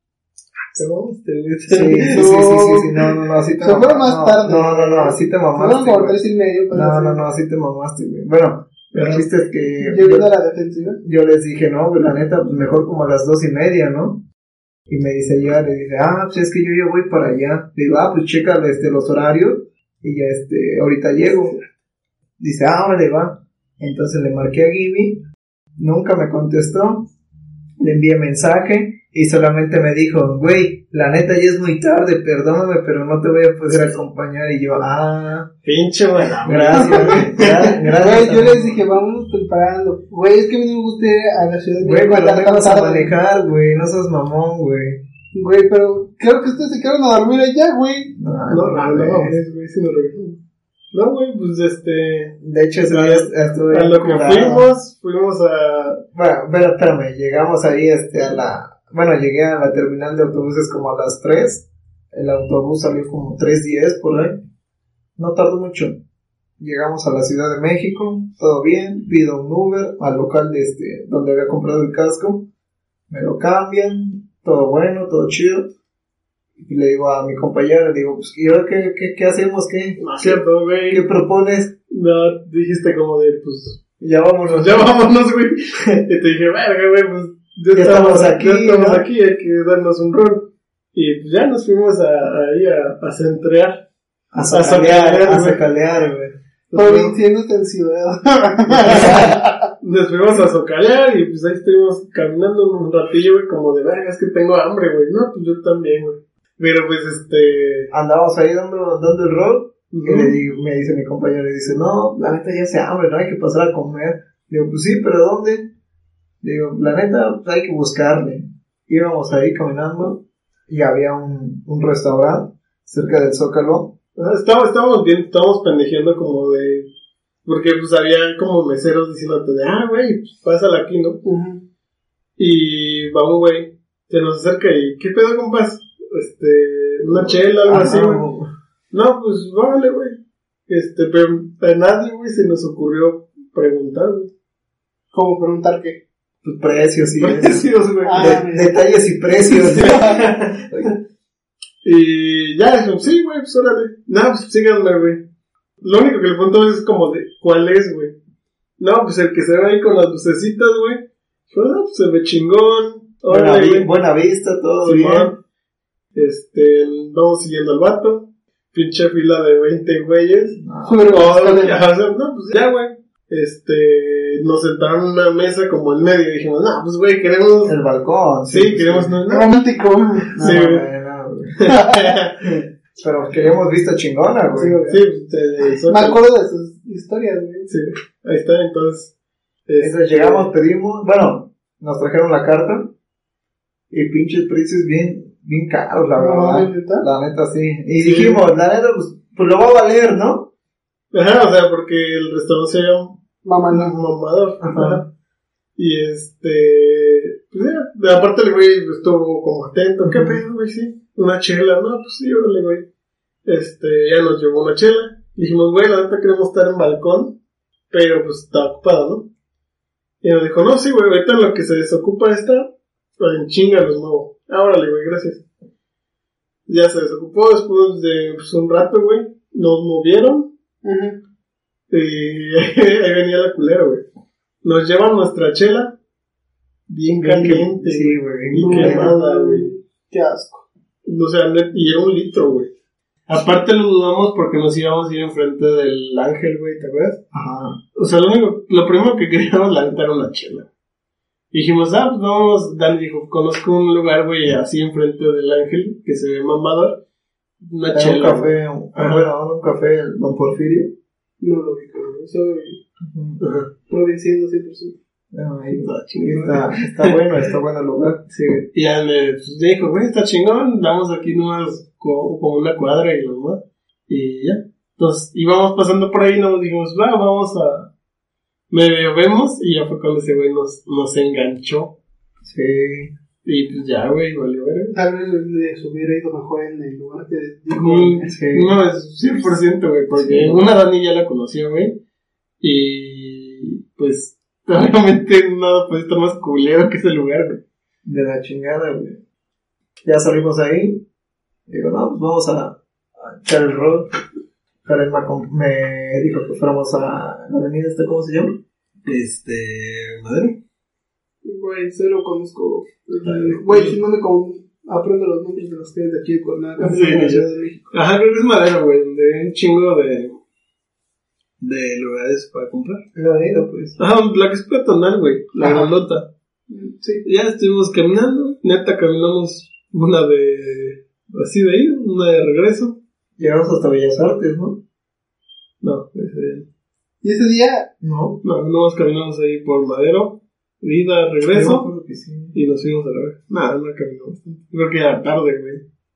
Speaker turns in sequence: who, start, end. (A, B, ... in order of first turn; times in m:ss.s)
0:00.7-0:02.3 A
0:01.7-0:10.3 B
0:02.1-0:02.9 C
0:03.6-0:07.2 C
0:08.9-0:09.3 A
0:09.8-0:11.0 C
0:11.0-0:14.2 B
0:14.9-0:21.6 B
0:21.3-0:21.6 A
0:22.4-0:25.2 B
0:25.8-0:27.1 B
0:27.8-0:35.5 B
0:35.6-0:37.7 A
0:36.4-0:38.8 B
0:36.8-0:43.1 C
0:41.8-0:45.0 B
0:45.3-0:48.1 C
0:48.1-0:49.4 B
0:48.5-0:50.4 A
0:50.9-0:52.4 A
0:52.4-0:54.7 B
0:52.9-0:56.0 A
0:56.1-1:04.4 B
1:05.2-1:06.0 B
1:06.6-1:12.4 B
1:13.1-1:15.7 B
1:16.6-1:21.7 B
1:20.0-1:21.1 A
1:21.9-1:23.8 A
1:24.0-1:24.9 B
1:24.5-1:33.8 A
1:27.7-1:29.0 B
1:34.3-1:36.9 B
1:34.5-1:35.6 A
1:36.7-1:39.7 C
1:36.8-1:37.1 A
1:38.7-1:47.9 A
1:38.9-1:39.2 B
1:47.9-1:55.7 B
1:49.9-1:50.4 A
1:56.4-2:03.9 B
2:04.2-2:06.9 A
2:07.4-2:11.2 A
2:11.2-2:11.6 C
2:12.4-2:18.2 A
2:17.1-2:18.5 B
2:18.9-2:24.3 A
2:25.1-2:26.0 C
2:26.4-2:30.9 B
2:27.2-2:28.4 A
2:28.0-2:28.7 C
2:29.6-2:30.9 A
2:29.8-2:30.0 C
2:31.8-2:35.2 A
2:35.8-2:38.2 A
2:38.8-2:43.9 A
2:43.3-2:45.4 B
2:44.8-2:45.4 A
2:46.1-2:57.8 A
2:50.6-2:51.1 B
2:50.8-2:51.8 C
2:57.6-2:59.2 B
2:58.5-2:59.5 A
2:59.3-3:00.6 C
3:00.4-3:00.8 A
3:00.4-3:01.6 B
3:01.6-3:02.5 A
3:01.7-3:02.0 C
3:02.4-3:04.8 B
3:04.5-3:05.0 C
3:04.9-3:06.2 A
3:05.9-3:07.7 C
3:07.7-3:09.1 A
3:09.6-3:10.5 A
3:09.8-3:12.9 B
3:13.9-3:20.5 B
3:16.2-3:17.0 C
3:18.0-3:18.4 A
3:21.1-3:23.2 A
3:23.4-3:24.0 C
3:23.7-3:25.1 A
3:24.6-3:25.0 B
3:25.8-3:32.8 A
3:30.0-3:30.4 B
3:33.4-3:37.3 A
3:37.9-3:39.3 A
3:40.2-3:45.4 A
3:46.7-3:50.5 A
3:50.8-3:51.2 C
3:51.9-3:54.0 A
3:54.6-3:56.0 A
3:56.9-3:59.7 A
3:57.2-3:59.1 B
3:58.6-4:00.6 C
4:01.0-4:02.7 A
4:03.3-4:07.2 A
4:07.3-4:07.8 B
4:07.9-4:10.7 A
4:11.5-4:17.0 A
4:17.6-4:19.3 A
4:17.9-4:20.9 B
4:21.4-4:22.8 C
4:23.0-4:23.4 B
4:23.4-4:23.7 A
4:23.9-4:25.0 C
4:25.3-4:28.2 B
4:25.7-4:27.2 A
4:28.3-4:37.9 A
4:38.7-4:41.9 A
4:42.4-4:43.1 B
4:43.4-4:45.0 A
4:44.9-4:48.3 C
4:47.7-4:52.0 A
4:48.2-4:48.7 B
4:50.2-4:50.6 B
4:52.6-4:57.6 A
4:58.0-4:59.2 B
5:00.0-5:01.0 B
5:01.7-5:04.1 B
5:04.8-5:08.6 B
5:09.0-5:10.6 A
5:11.4-5:17.8 C
5:13.3-5:14.0 A
5:16.8-5:20.4 A
5:21.6-5:23.0 A
5:23.1-5:24.0 B
5:24.0-5:26.3 A
5:25.6-5:25.9 C
5:26.7-5:27.2 C
5:27.2-5:33.0 A
5:33.4-5:34.8 B
5:35.8-5:36.7 A
5:37.2-5:37.9 C
5:38.0-5:38.4 B
5:38.4-5:41.9 A
5:41.5-5:42.6 B
5:42.5-5:45.8 A